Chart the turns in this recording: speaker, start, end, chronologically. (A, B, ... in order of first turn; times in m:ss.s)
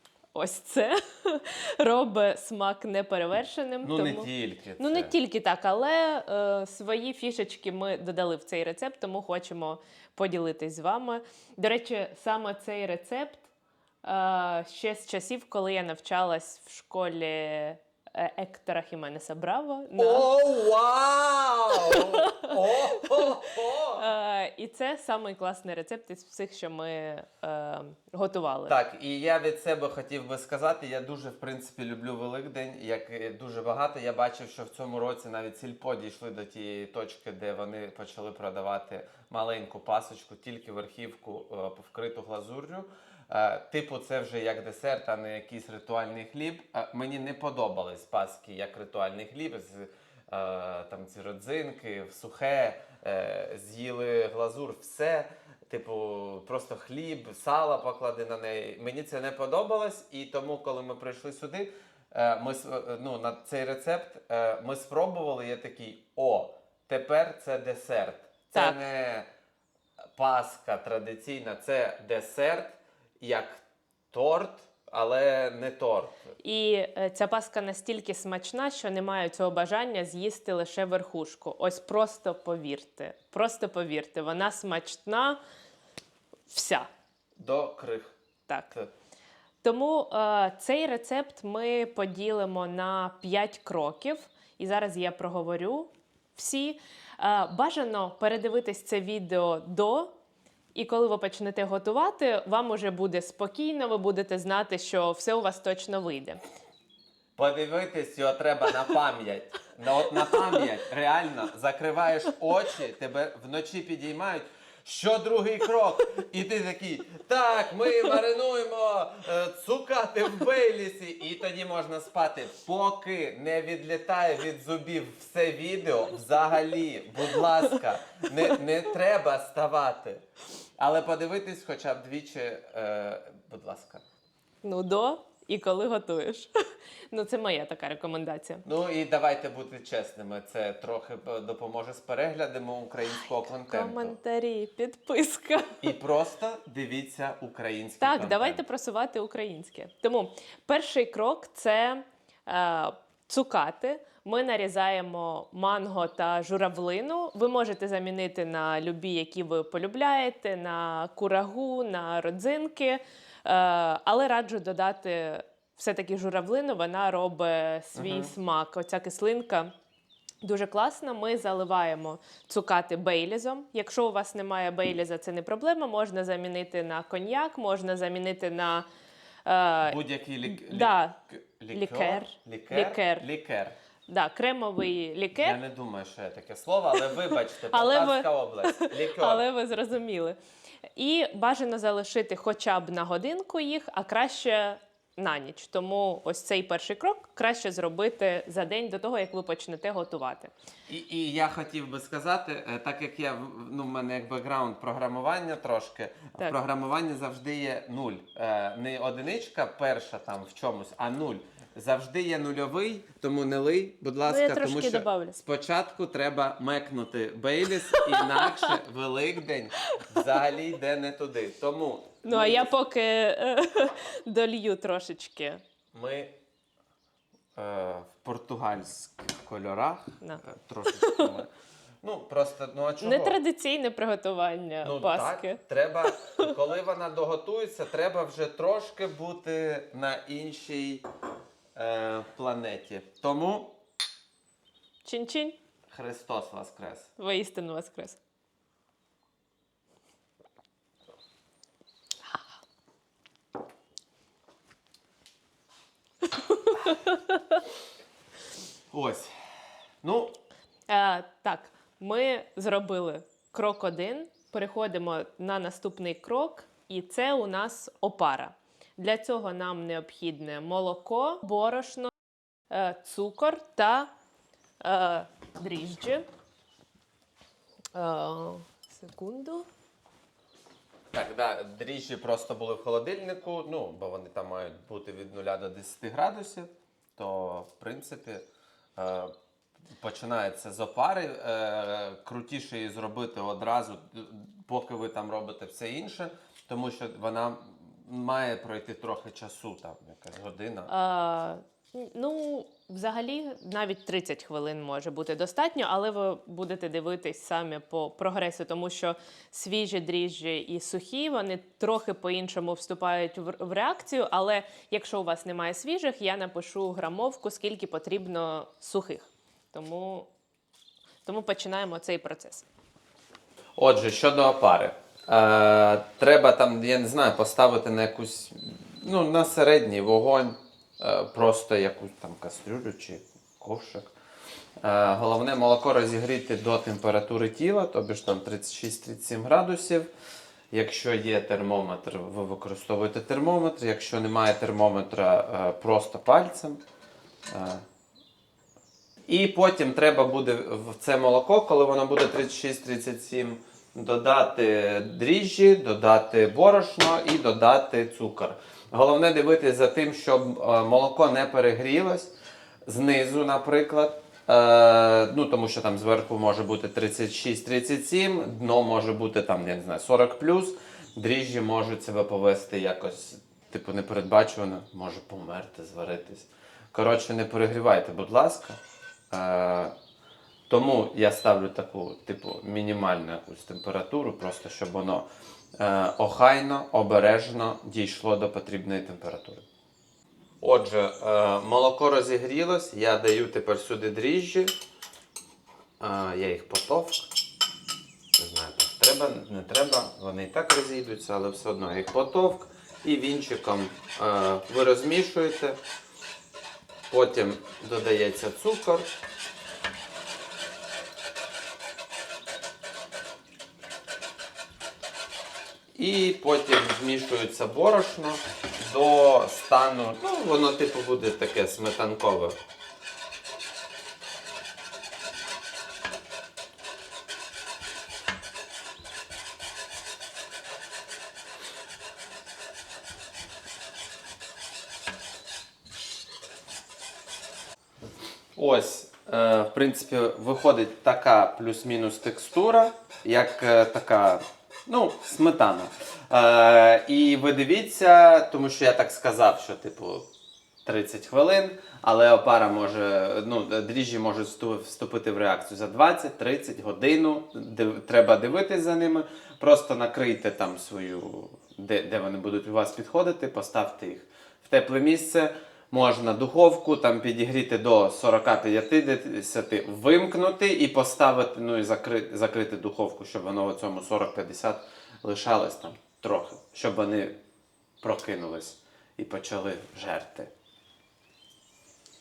0:00.4-0:13.5 A
0:03.8-0:05.1 B
0:14.0-0:20.3 A
0:20.0-0:24.0 B
0:21.8-0:23.1 A
0:24.0-0:28.8 A
0:28.7-1:09.3 B
1:08.6-1:08.8 A
1:10.2-1:16.1 B
1:16.4-1:25.4 A
1:26.5-1:26.9 A
1:27.4-1:28.2 B
1:28.5-1:28.7 A
1:29.6-1:40.1 A
1:40.8-1:46.4 A
1:47.4-2:10.2 B
2:10.8-2:14.0 B
2:14.6-2:16.5 A
2:17.1-2:18.6 A
2:18.6-2:24.2 B
2:23.7-2:25.9 A
2:25.8-2:28.6 B
2:28.0-2:49.7 A
2:48.0-2:48.3 B
2:50.4-2:58.9 A
2:59.5-3:01.2 A
2:59.8-3:03.8 B
3:01.7-3:03.3 A
3:04.1-3:05.6 A
3:05.4-3:09.4 B
3:07.7-3:10.4 A
3:11.0-3:20.5 A
3:20.9-3:42.7 B
3:34.3-3:35.4 A
3:38.0-3:38.7 A
3:42.2-3:45.6 A
3:45.9-3:46.4 B
3:47.6-3:51.5 B
3:50.2-3:51.3 A
3:52.0-3:53.4 B
3:53.0-3:55.6 A
3:54.8-4:01.1 B
3:56.2-3:56.5 A
4:01.8-4:03.8 B
4:05.0-4:05.6 A
4:05.9-4:07.1 B
4:07.2-4:08.2 A
4:16.2-4:17.6 A
4:18.9-4:19.3 B
4:20.0-4:20.4 B
4:20.9-4:32.1 A
4:32.7-4:34.1 A
4:34.8-4:36.3 A
4:38.0-4:39.7 A
4:41.1-4:48.4 B
4:49.0-4:49.3 B
4:49.9-5:00.9 B
5:00.9-5:20.3 A
5:21.2-5:22.7 A
5:23.8-5:34.1 B
5:34.8-5:40.1 B
5:40.7-5:46.8 B
5:47.5-5:47.8 B
5:49.3-6:02.3 B
6:02.9-6:18.8 B
6:19.3-6:19.9 B
6:20.7-6:29.6 B
6:30.6-6:34.8 B
6:36.0-6:37.3 B
6:38.4-6:45.8 B
6:47.1-6:49.1 B
6:56.0-7:02.6 B
7:18.6-7:30.3 B
7:30.8-7:57.3 B
7:58.0-8:00.5 B